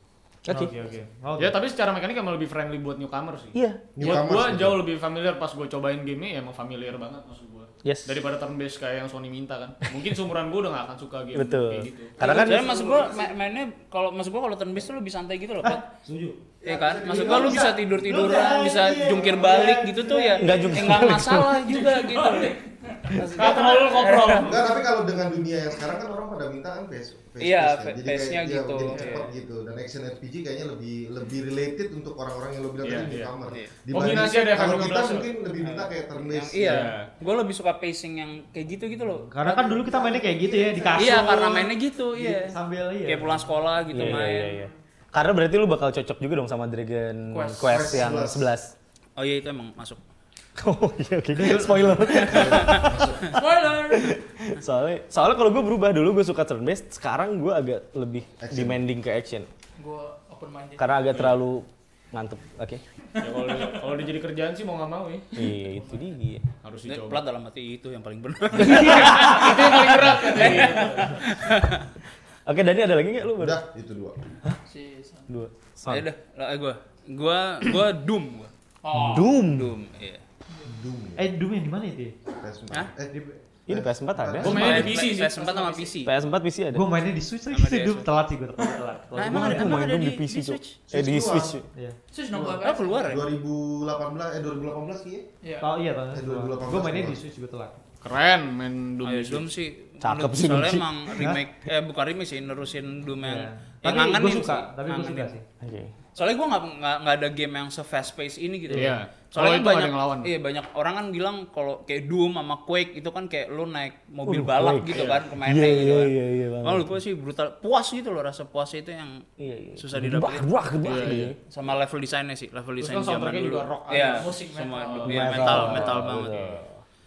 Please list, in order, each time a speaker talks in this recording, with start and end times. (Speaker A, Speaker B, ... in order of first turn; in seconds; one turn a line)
Speaker A: 0.5-0.7
Speaker B: 0.5-1.6
Speaker C: 1.4-12.2
Speaker A: 3.5-4.2
Speaker D: 4.0-4.8
Speaker A: 7.8-8.2
Speaker A: 11.3-12.9
Speaker E: 12.2-15.8
Speaker B: 12.2-12.8
Speaker D: 12.6-13.3
Speaker B: 15.6-21.2
Speaker D: 16.6-17.7
Speaker E: 16.6-24.5
Speaker A: 20.4-21.6
Speaker F: 21.9-23.6
Speaker C: 23.2-24.6
Speaker D: 24.4-36.9
Speaker E: 27.4-29.3
Speaker C: 32.8-33.3
Speaker C: 33.9-35.3
Speaker E: 35.6-40.0
Speaker C: 36.6-37.1
Speaker B: 39.2-44.3
Speaker D: 39.6-41.2
Speaker E: 40.9-44.7
Speaker A: 43.9-48.7
Speaker F: 47.3-47.9
Speaker D: 47.6-48.5
Speaker E: 49.2-50.0
Speaker A: 50.6-53.1
Speaker B: 51.4-52.5
Speaker E: 52.1-52.9
Speaker D: 52.1-53.4
Speaker F: 53.2-54.2
Speaker A: 53.9-59.5
Speaker D: 58.4-58.8
Speaker F: 59.8-61.2
Speaker A: 60.8-62.8
Speaker C: 63.2-65.5
Speaker A: 65.4-66.5
Speaker C: 66.6-67.2
Speaker E: 66.9-71.9
Speaker C: 68.6-71.2
Speaker A: 68.6-69.4
Speaker A: 72.5-73.6
Speaker D: 73.4-74.2
Speaker F: 74.7-75.3
Speaker A: 75.3-76.1
Speaker E: 75.9-78.5
Speaker F: 78.8-79.3
Speaker A: 78.9-79.8
Speaker E: 79.4-80.2
Speaker D: 80.7-81.2
Speaker B: 81.2-82.2
Speaker D: 82.3-83.2
Speaker B: 83.1-83.4
Speaker A: 83.7-84.9
Speaker D: 83.7-85.0
Speaker C: 84.4-85.5
Speaker E: 84.5-86.2
Speaker F: 85.4-85.9
Speaker A: 86.0-86.9
Speaker B: 86.7-89.8
Speaker E: 87.5-88.1
Speaker E: 89.1-90.8
Speaker A: 89.2-91.6
Speaker D: 90.9-91.6
Speaker B: 91.7-92.0
Speaker F: 92.1-93.2
Speaker D: 92.3-95.2
Speaker E: 92.6-93.3
Speaker F: 95.4-95.7
Speaker B: 95.6-97.8
Speaker D: 96.1-97.2
Speaker C: 98.0-99.5
Speaker E: 99.0-105.3
Speaker A: 100.0-101.3
Speaker B: 103.2-105.4
Speaker A: 105.6-105.9
Speaker E: 106.2-119.2
Speaker C: 108.7-110.3
Speaker A: 114.3-117.0
Speaker A: 119.4-121.4
Speaker E: 119.8-126.6
Speaker C: 120.8-121.3
Speaker C: 122.8-124.3
Speaker F: 124.1-125.6
Speaker C: 124.9-126.6
Speaker A: 125.1-126.8